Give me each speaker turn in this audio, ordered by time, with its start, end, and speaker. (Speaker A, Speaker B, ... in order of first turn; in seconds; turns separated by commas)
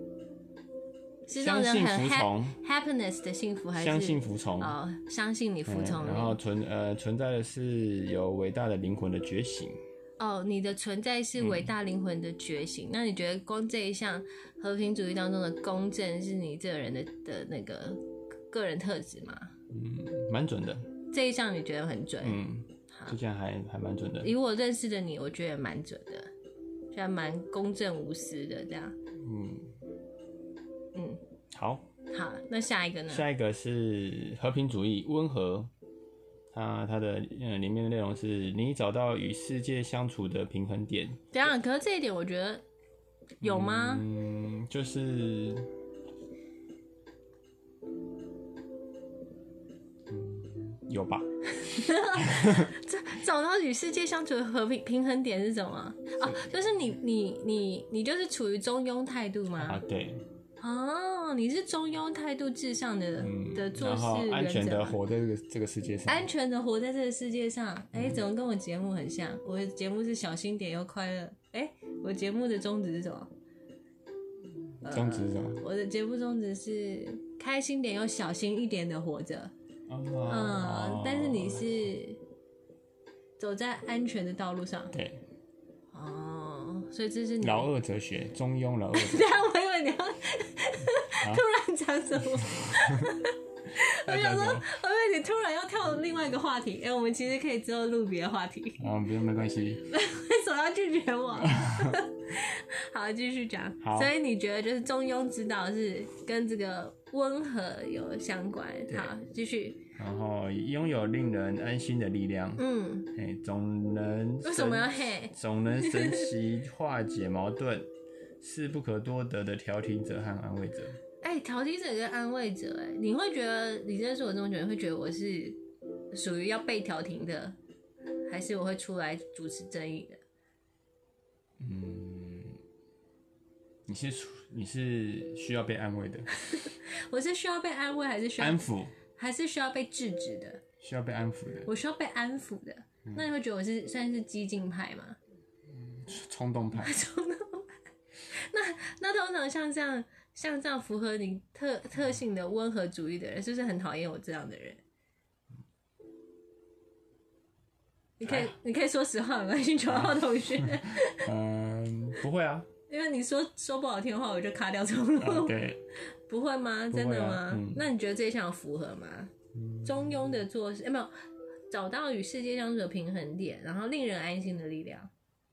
Speaker A: 1.3-6.4, Speaker B: 1.3-2.6, Speaker B: 3.7-4.8, Speaker B: 5.7-9.8, Speaker A: 10.2-19.5, Speaker B: 11.4-11.7, Speaker B: 19.7-20.9, Speaker A: 21.1-23.1, Speaker B: 22.2-24.3, Speaker A: 24.2-26.3, Speaker A: 26.9-28.9, Speaker B: 29.1-29.7, Speaker A: 30.9-31.2, Speaker B: 31.5-31.9, Speaker A: 32.1-33.2, Speaker B: 33.1-35.7, Speaker B: 36.5-41.3, Speaker A: 41.3-42.6, Speaker A: 43.4-44.0, Speaker B: 43.4-45.7, Speaker B: 50.1-52.7, Speaker A: 51.6-59.8, Speaker B: 59.6-60.2, Speaker A: 60.6-65.0, Speaker B: 63.2-66.3, Speaker A: 66.1-73.3, Speaker B: 67.9-68.2, Speaker A: 74.8-79.5, Speaker B: 74.8-75.6, Speaker B: 79.9-81.9, Speaker A: 80.2-82.2, Speaker A: 83.4-85.0, Speaker B: 84.9-85.2, Speaker A: 85.9-87.7, Speaker B: 87.4-89.4, Speaker A: 88.9-98.8, Speaker B: 92.7-93.1, Speaker B: 94.0-94.7, Speaker B: 98.8-99.8, Speaker A: 99.9-109.9, Speaker B: 101.4-102.0, Speaker B: 103.8-104.1, Speaker B: 110.0-117.9, Speaker A: 112.6-113.1, Speaker A: 114.4-116.3, Speaker B: 118.4-121.0, Speaker A: 121.2-125.6, Speaker A: 126.1-127.5, Speaker A: 128.3-130.2, Speaker B: 131.6-132.6, Speaker B: 133.8-136.3, Speaker A: 136.4-140.6, Speaker B: 138.4-138.9, Speaker B: 140.8-141.7, Speaker A: 141.7-145.2, Speaker B: 145.7-147.0, Speaker A: 146.7-147.8, Speaker A: 148.3-154.8, Speaker A: 158.2-161.3, Speaker B: 158.2-158.5, Speaker B: 159.9-162.7, Speaker A: 162.9-165.6, Speaker B: 165.2-165.8, Speaker A: 166.3-169.3, Speaker B: 166.9-167.9, Speaker B: 169.5-170.4, Speaker A: 169.8-171.1, Speaker A: 171.7-175.1